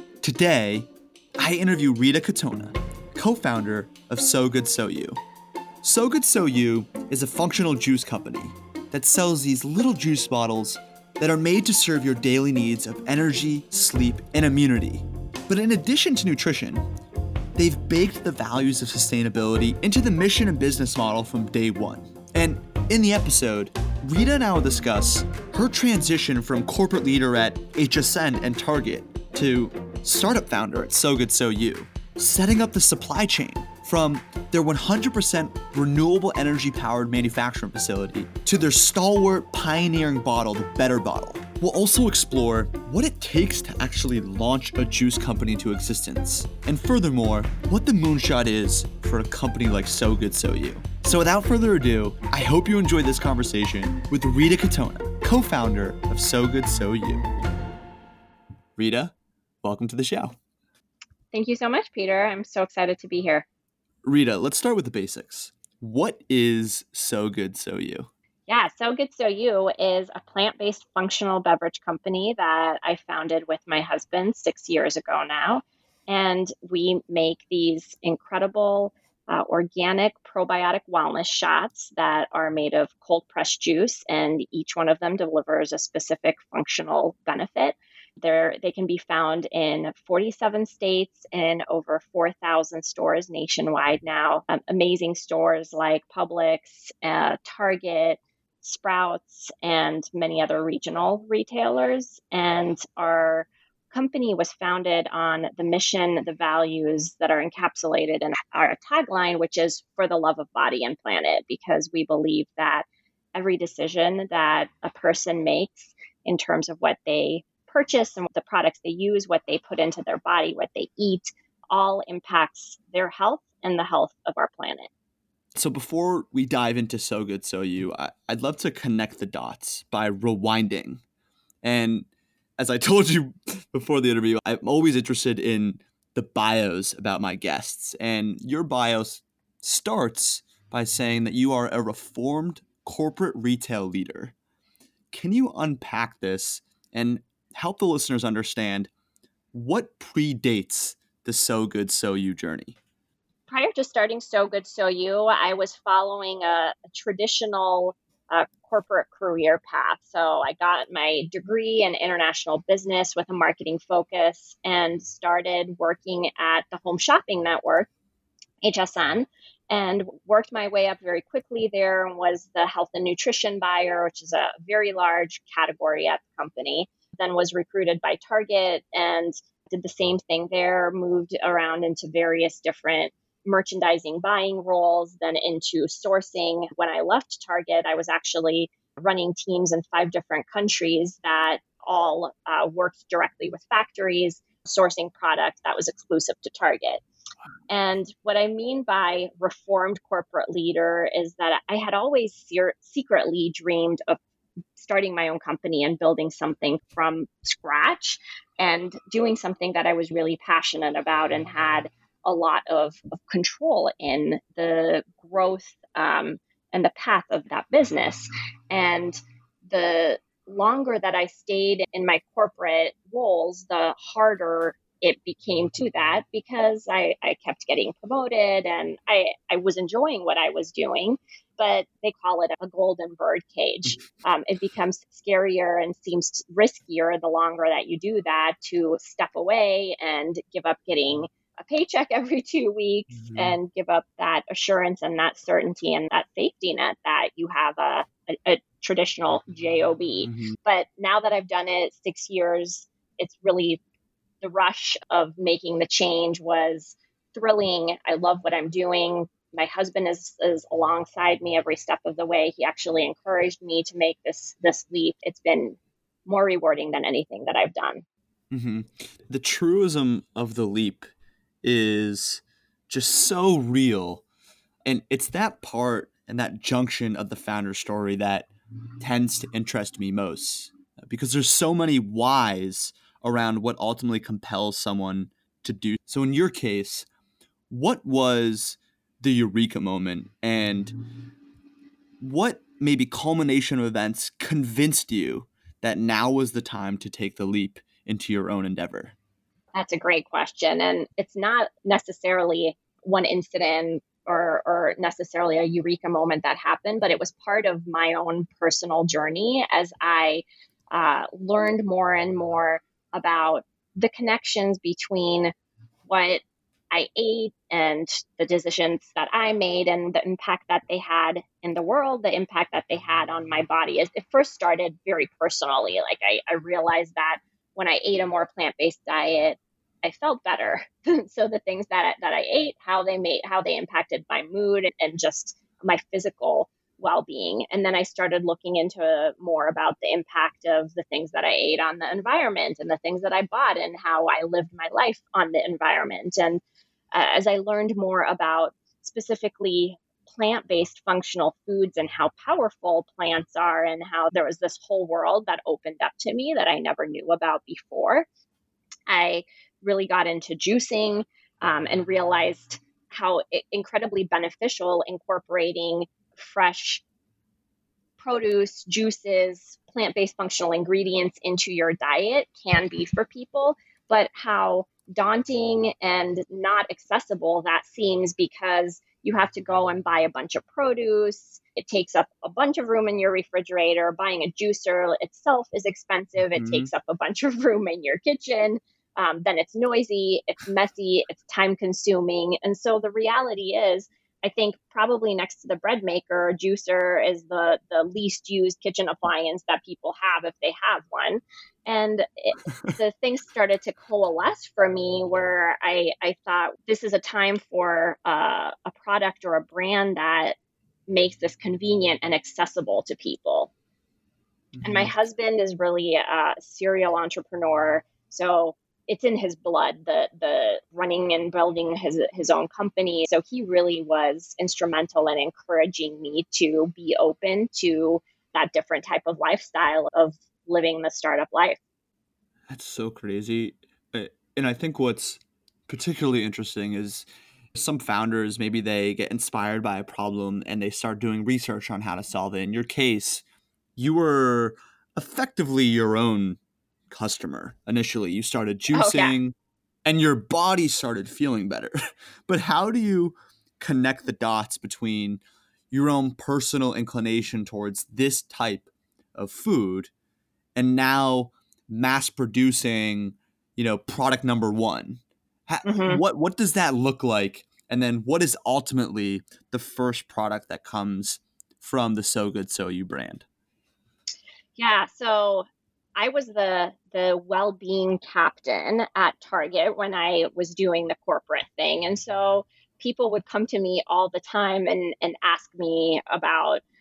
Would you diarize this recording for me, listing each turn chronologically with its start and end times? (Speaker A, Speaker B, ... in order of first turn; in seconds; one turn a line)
Speaker A: 0.2-0.9
Speaker A: 1.4-5.2
Speaker A: 5.8-16.8
Speaker A: 17.6-57.3
Speaker A: 58.8-60.4
Speaker B: 61.3-63.5
Speaker A: 64.0-68.1
Speaker B: 68.5-124.9
Speaker A: 125.5-131.0
Speaker A: 131.6-144.3
Speaker A: 145.1-148.9
Speaker A: 149.5-152.8
Speaker B: 153.5-167.9
Speaker B: 168.6-197.0
Speaker B: 197.7-204.2
Speaker B: 204.8-253.8
Speaker A: 243.1-243.6
Speaker A: 250.2-250.6
Speaker B: 254.4-268.0
Speaker A: 268.5-271.1
Speaker A: 271.6-274.2
Speaker A: 274.9-278.5
Speaker A: 279.0-287.1
Speaker A: 287.7-291.0
Speaker A: 292.2-299.2
Speaker B: 299.7-315.5
Speaker B: 316.1-346.6
Speaker B: 347.1-358.3
Speaker B: 359.1-367.0
Speaker B: 368.2-410.6
Speaker A: 386.6-386.9
Speaker B: 411.1-413.7
Speaker A: 414.8-415.1
Speaker B: 414.8-431.8
Speaker A: 432.7-443.4
Speaker A: 444.0-446.6
Speaker A: 447.1-460.1
Speaker B: 448.9-449.4
Speaker A: 460.8-473.4
Speaker B: 465.8-466.2
Speaker B: 474.8-486.8